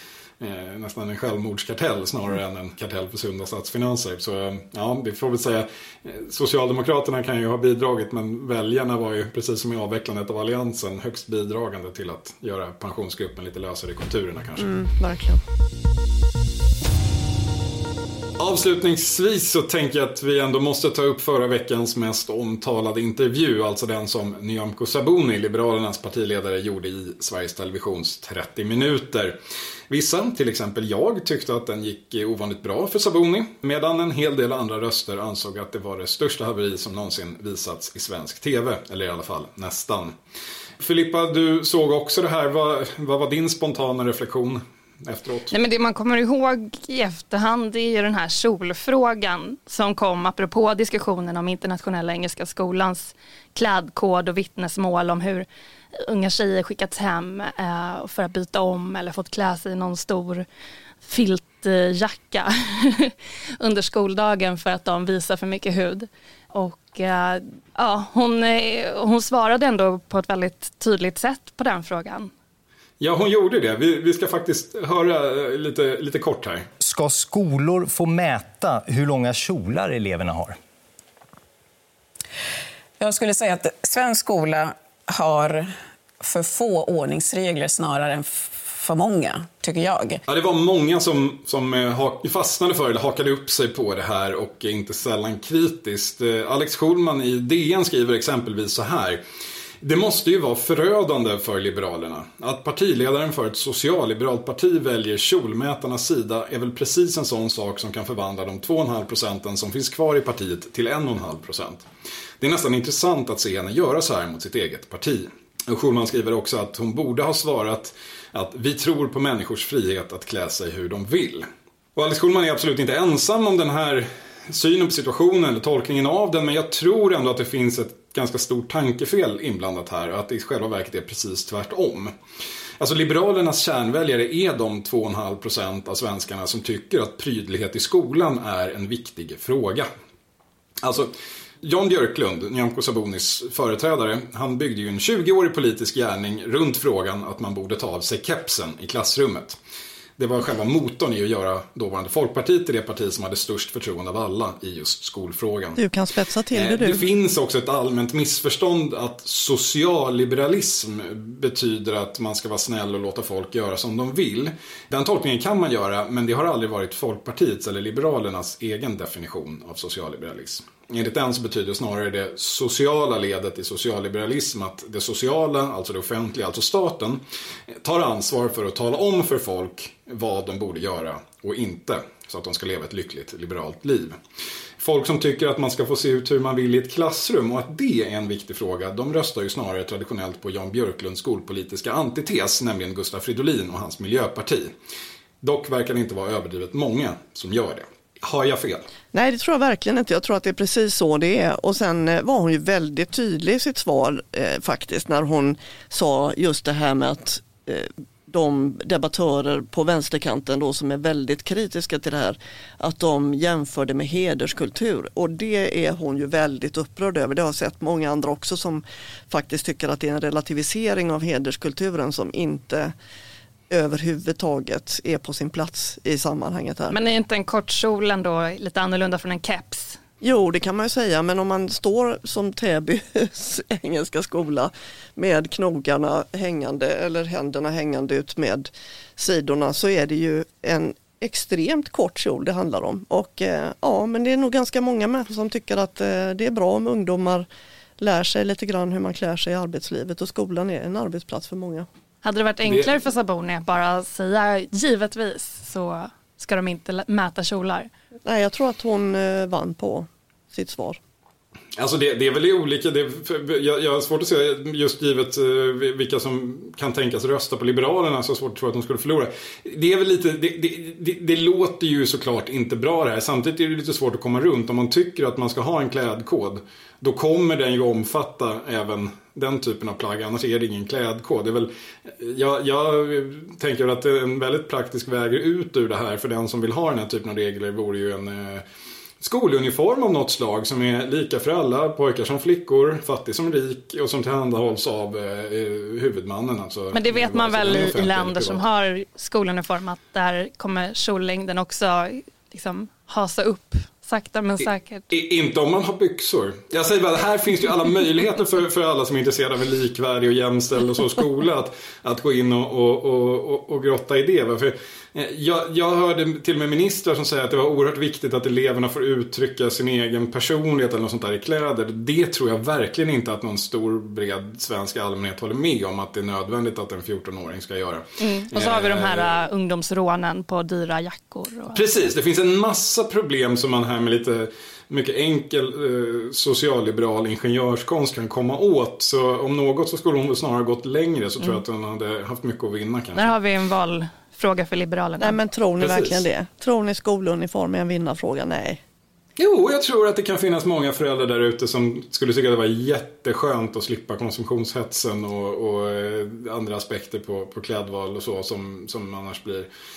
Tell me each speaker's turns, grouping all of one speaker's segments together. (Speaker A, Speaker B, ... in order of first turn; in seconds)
Speaker A: 0.4-14.7, 18.4-29.4, 29.9-40.1, 40.8-45.5, 73.0-76.7, 90.3-99.2, 99.8-111.9, 112.4-132.1, 132.8-139.9, 140.8-149.6, 150.2-155.8, 156.5-177.2, 177.8-184.2, 184.8-194.7, 195.4-198.9, 261.8-288.6, 289.2-298.6, 305.1-329.4, 331.7-343.3, 345.8-346.2, 349.4-359.7
Speaker B: 14.6-15.4, 155.8-157.1, 199.1-222.9, 223.7-226.9, 230.2-247.5, 248.0-251.9, 258.2-261.0, 345.2-348.8
Speaker C: 45.5-60.5, 61.0-72.3, 226.9-230.0, 252.2-257.9, 296.9-305.1, 328.2-331.9, 343.1-345.4
Speaker D: 76.8-80.6
Speaker E: 83.0-90.2